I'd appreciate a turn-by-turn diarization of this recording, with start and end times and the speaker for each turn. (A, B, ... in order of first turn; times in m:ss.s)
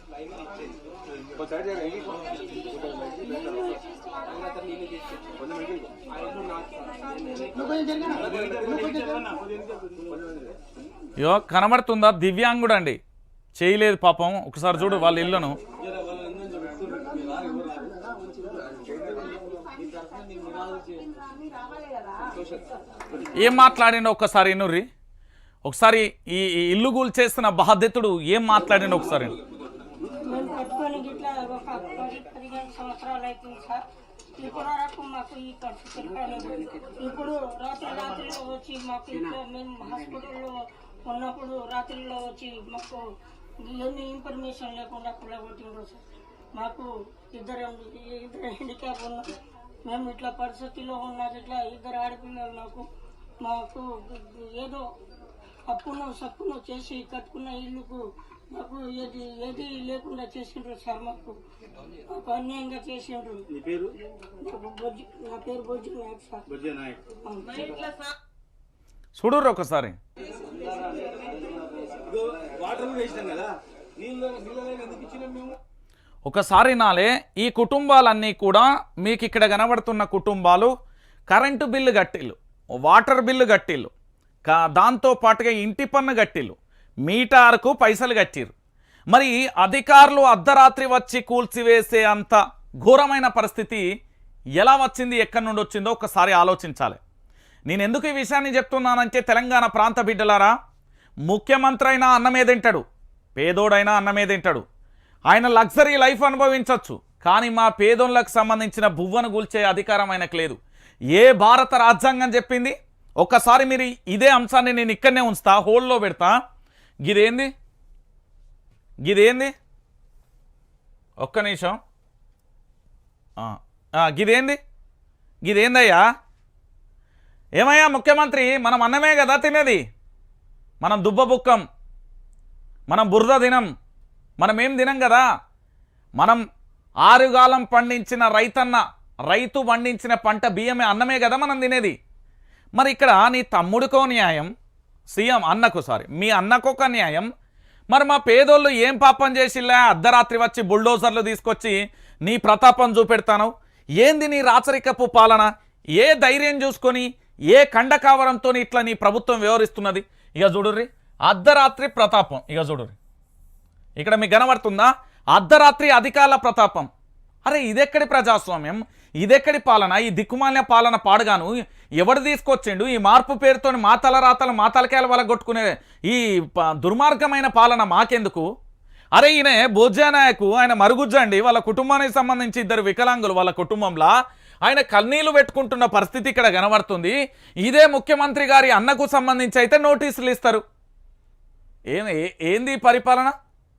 0:01.6-0:02.1 A
0:07.3-0:10.1 A
0:11.2-0:13.0 B
0:13.6-0:15.6 B
0:15.8-0:18.0 A
0:20.1-0:21.0 A
0:23.4-0:24.9 B
0:25.6-0:29.4 B
0:30.2-0:33.8 C
0:34.3-0:52.9 C
0:53.4-0:54.9 C
0:55.7-1:01.4 C
1:02.0-1:03.5 C
1:03.5-1:04.0 A
1:04.4-1:06.5 C
1:06.5-1:07.0 A
1:07.2-1:08.0 C
1:09.2-1:10.0 B
1:11.9-1:15.6 A
1:16.3-1:20.7 B
1:21.3-1:23.9 B
1:24.4-1:28.5 B
1:29.1-1:33.9 B
1:34.6-1:37.0 B
1:37.7-1:40.5 B
1:41.3-1:42.8 B
1:43.4-1:44.6 B
1:45.3-1:50.6 B
1:51.1-1:56.4 B
1:57.0-1:57.5 B
1:59.0-1:59.5 B
2:01.2-2:01.8 B
2:03.4-2:04.6 B
2:05.4-2:06.0 B
2:07.6-2:09.8 B
2:10.8-2:11.6 B
2:12.9-2:13.7 B
2:14.4-2:15.2 B
2:17.0-2:22.0 B
2:22.8-2:24.5 B
2:25.1-2:27.3 B
2:27.9-2:43.0 B
2:44.0-2:46.9 B
2:47.4-2:58.4 B
2:59.2-3:04.1 B
3:04.6-3:10.6 B
3:11.9-3:13.3 B